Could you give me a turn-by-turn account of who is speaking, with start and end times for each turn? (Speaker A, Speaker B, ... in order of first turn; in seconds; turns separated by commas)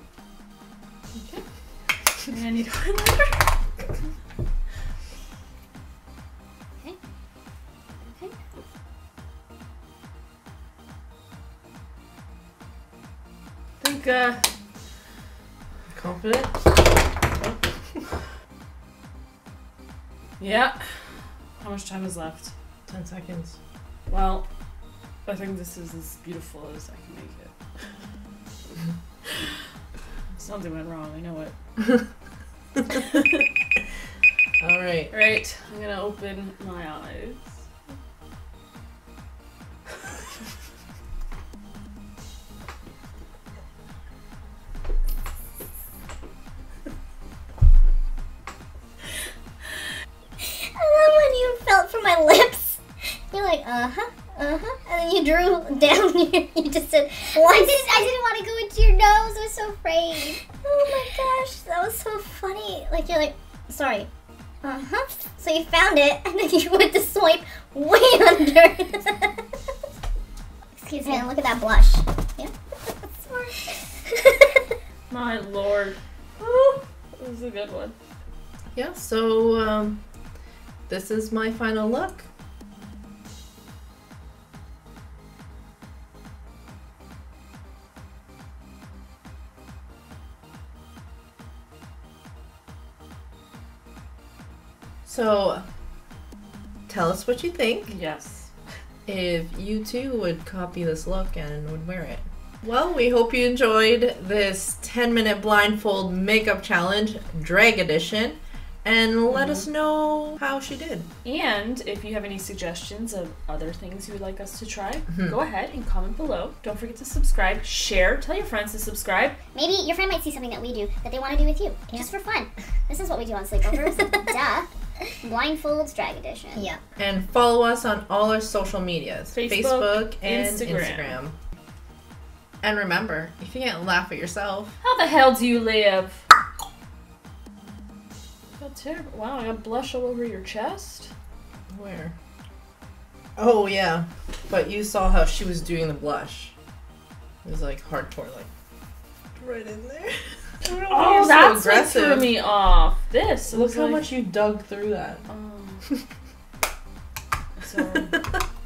Speaker A: 2.3-3.5, Speaker B: 8.0-8.3, Speaker A: 13.8-14.5, Speaker C: 15.9-16.6, Speaker C: 17.4-18.0, Speaker A: 20.4-22.5, Speaker C: 22.9-23.6, Speaker A: 24.1-24.4, Speaker A: 25.2-27.9, Speaker A: 30.3-31.5, Speaker A: 32.9-33.4, Speaker C: 34.6-35.1, Speaker A: 35.1-37.5, Speaker D: 50.4-58.1, Speaker B: 57.3-61.3, Speaker D: 60.4-64.1, Speaker B: 62.0-62.5, Speaker B: 64.6-65.3, Speaker D: 65.4-69.3, Speaker B: 66.5-68.3, Speaker D: 70.8-71.7, Speaker B: 71.0-72.0, Speaker B: 73.2-73.7, Speaker A: 75.1-77.9, Speaker C: 78.7-80.0, Speaker C: 80.9-82.2, Speaker C: 95.0-95.6, Speaker C: 96.9-97.9, Speaker A: 97.9-98.5, Speaker C: 99.0-111.1, Speaker A: 109.3-109.7, Speaker A: 111.2-119.3, Speaker B: 119.5-126.6, Speaker D: 126.5-126.8, Speaker C: 127.0-131.3, Speaker A: 129.3-131.2, Speaker C: 132.6-134.8, Speaker A: 134.8-136.2, Speaker A: 138.6-141.1, Speaker C: 141.7-142.1, Speaker C: 143.4-146.5, Speaker C: 147.4-148.5, Speaker C: 149.3-152.3, Speaker A: 150.7-154.1, Speaker C: 153.5-155.3, Speaker A: 155.3-155.8, Speaker A: 157.6-158.2